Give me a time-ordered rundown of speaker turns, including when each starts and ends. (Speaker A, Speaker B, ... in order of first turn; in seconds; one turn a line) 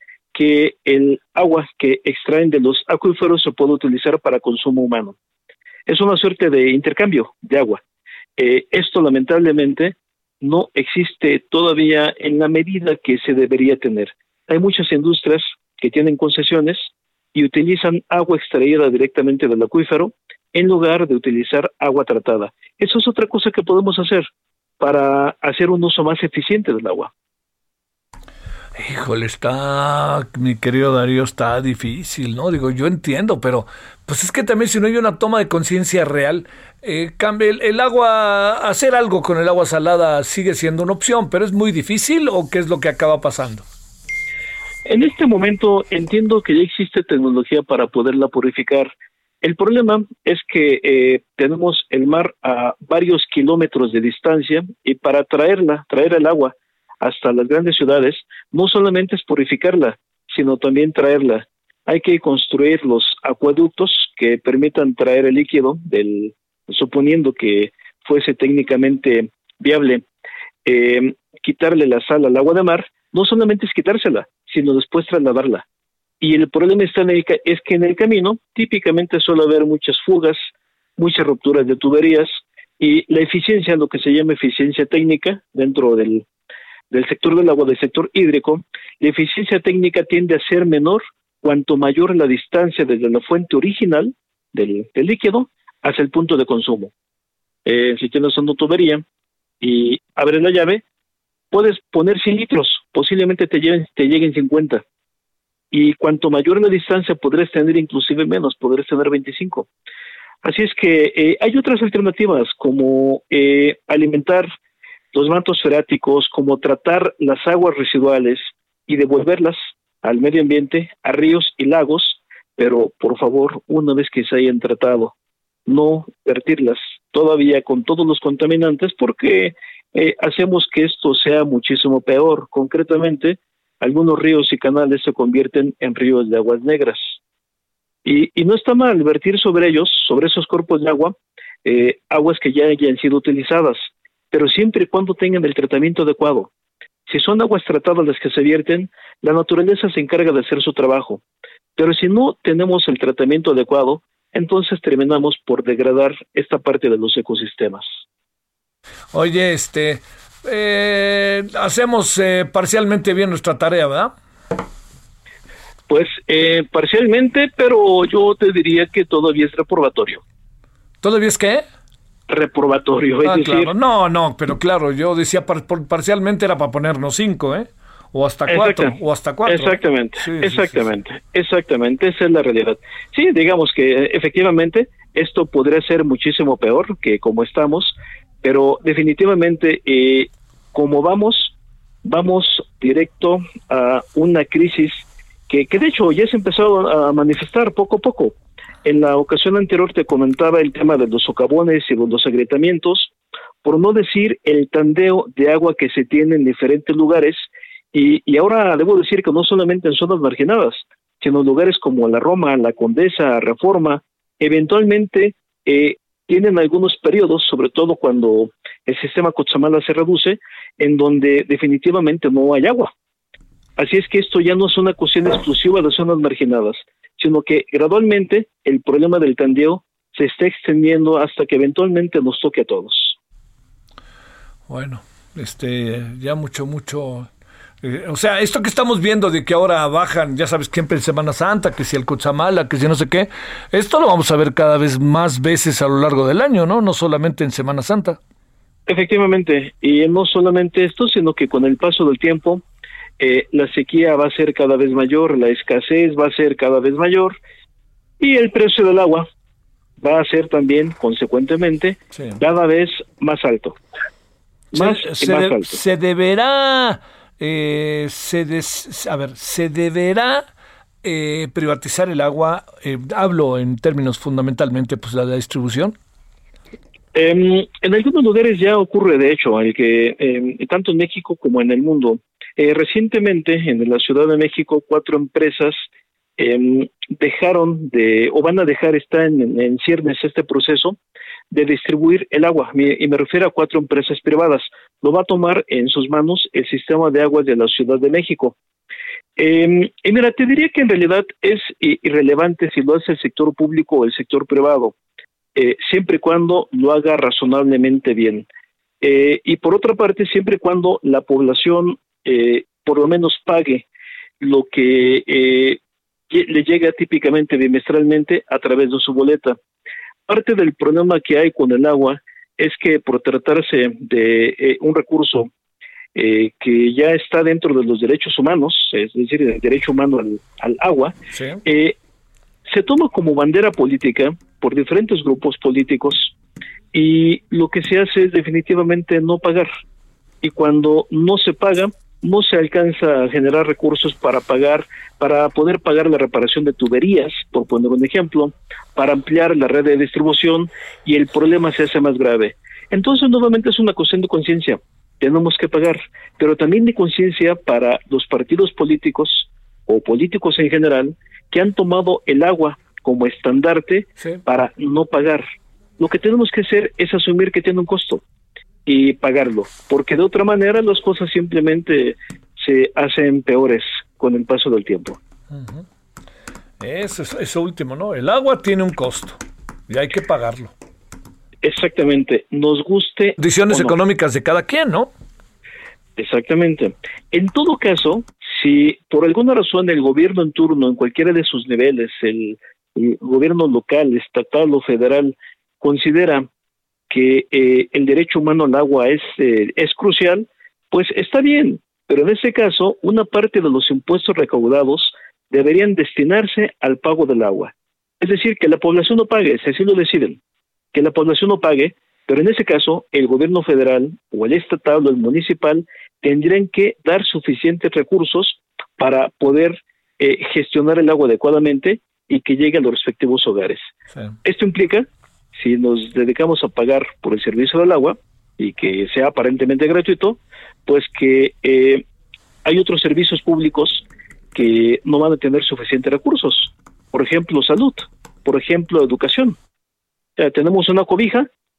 Speaker A: 0.3-5.1
Speaker A: 5.9-7.8
Speaker A: 8.4-24.3
Speaker A: 24.8-27.1
Speaker B: 28.7-43.6
Speaker A: 44.9-48.9
Speaker A: 49.4-70.0
Speaker A: 70.7-75.6
Speaker A: 76.2-86.2
Speaker A: 86.9-96.9
Speaker A: 97.6-99.0
Speaker A: 99.6-100.8
Speaker A: 101.5-104.8
Speaker A: 105.7-109.7
Speaker A: 110.4-114.5
Speaker A: 115.1-125.1
Speaker A: 125.7-137.2
Speaker A: 138.0-146.5
Speaker A: 147.1-151.2
Speaker A: 151.8-157.9
Speaker B: 159.1-164.1
Speaker A: 165.9-170.2
Speaker B: 171.0-171.7
Speaker A: 172.3-173.7
Speaker B: 173.2-180.8
Speaker A: 178.5-203.1
Speaker A: 203.6-222.9
Speaker A: 223.8-233.2
Speaker B: 234.7-237.3
Speaker B: 237.8-248.2
Speaker A: 248.9-252.6
Speaker A: 253.2-257.4
Speaker A: 258.2-259.3
Speaker A: 260.0-263.8
Speaker B: 262.1-262.4
Speaker A: 264.7-265.8
Speaker B: 264.7-270.5
Speaker B: 271.0-275.9
Speaker A: 277.1-285.8
Speaker A: 286.4-291.0
Speaker A: 291.5-298.6
Speaker A: 299.4-304.9
Speaker A: 305.6-308.5
Speaker A: 309.0-313.9
Speaker A: 314.4-315.8
Speaker A: 316.3-319.6
Speaker A: 320.3-325.5
Speaker A: 326.1-331.9
Speaker B: 331.3-331.6
Speaker A: 332.6-336.3
Speaker A: 336.9-339.7
Speaker A: 340.4-365.4
Speaker A: 366.0-368.2
Speaker A: 368.9-375.2
Speaker B: 375.5-375.9
Speaker B: 376.8-380.7
Speaker A: 381.6-383.9
Speaker B: 383.4-385.1
Speaker A: 386.2-396.5
Speaker A: 397.1-410.4
Speaker A: 410.9-423.9
Speaker A: 424.4-432.0
Speaker A: 432.6-439.6
Speaker A: 440.4-441.5